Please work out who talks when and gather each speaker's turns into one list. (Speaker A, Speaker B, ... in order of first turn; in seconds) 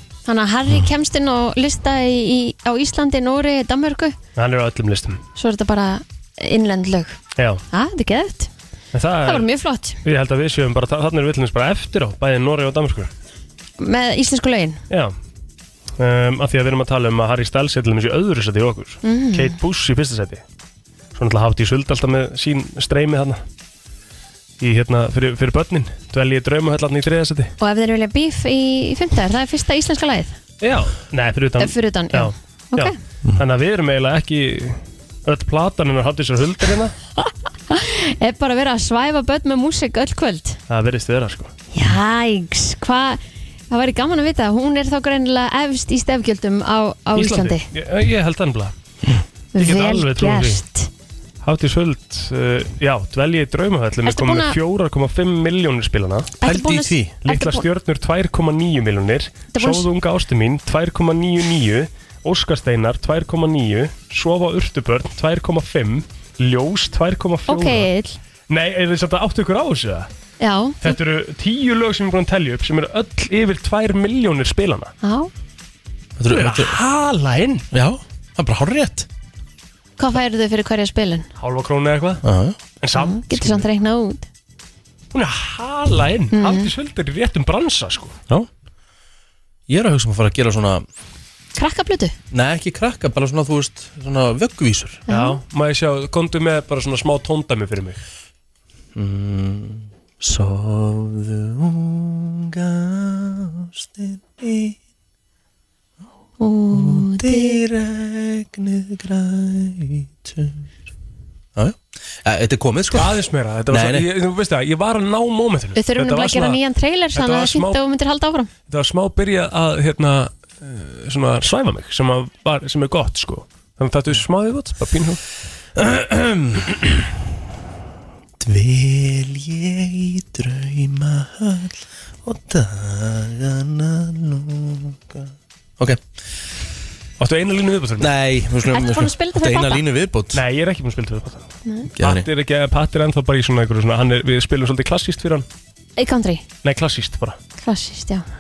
Speaker A: 0.3-4.2, 5.4-7.2, 7.7-8.5, 9.2-10.0, 13.8-14.8, 19.0-19.6, 27.6-30.4, 31.6-33.0, 37.2-40.6, 41.7-47.7, 49.5-50.9, 54.1-54.6, 56.4-57.7, 59.5-59.9, 67.5-68.2, 70.4-71.0, 75.0-75.3, 80.0-81.3, 82.9-84.3, 86.3-86.7, 91.6-92.2, 95.1-95.4, 106.4-107.6, 115.8-118.5, 138.7-139.8, 146.0-146.4, 147.6-148.2
Speaker B: 4.4-5.2, 7.4-7.6, 8.9-9.5, 10.0-13.1, 16.0-20.4, 21.2-23.4, 24.6-27.5, 30.6-37.0, 40.7-41.5, 47.2-48.7, 49.6-50.6, 51.4-56.3, 57.2-67.9, 68.5-70.1, 70.8-74.9, 76.3-77.7, 81.4-82.2, 82.8-83.7, 85.1-88.2, 95.1-98.0, 112.9-116.6, 117.2-117.8, 118.7-125.2, 137.2-138.1, 140.3-145.5, 146.6-147.4
Speaker C: 56.4-57.1, 76.2-76.8, 77.7-79.1, 82.2-82.6, 89.7-90.8, 92.3-95.0, 99.0-104.8, 106.7-110.6, 111.6-113.2, 113.7-114.1, 125.8-127.1, 128.4-136.0, 138.0-140.4, 142.0-142.3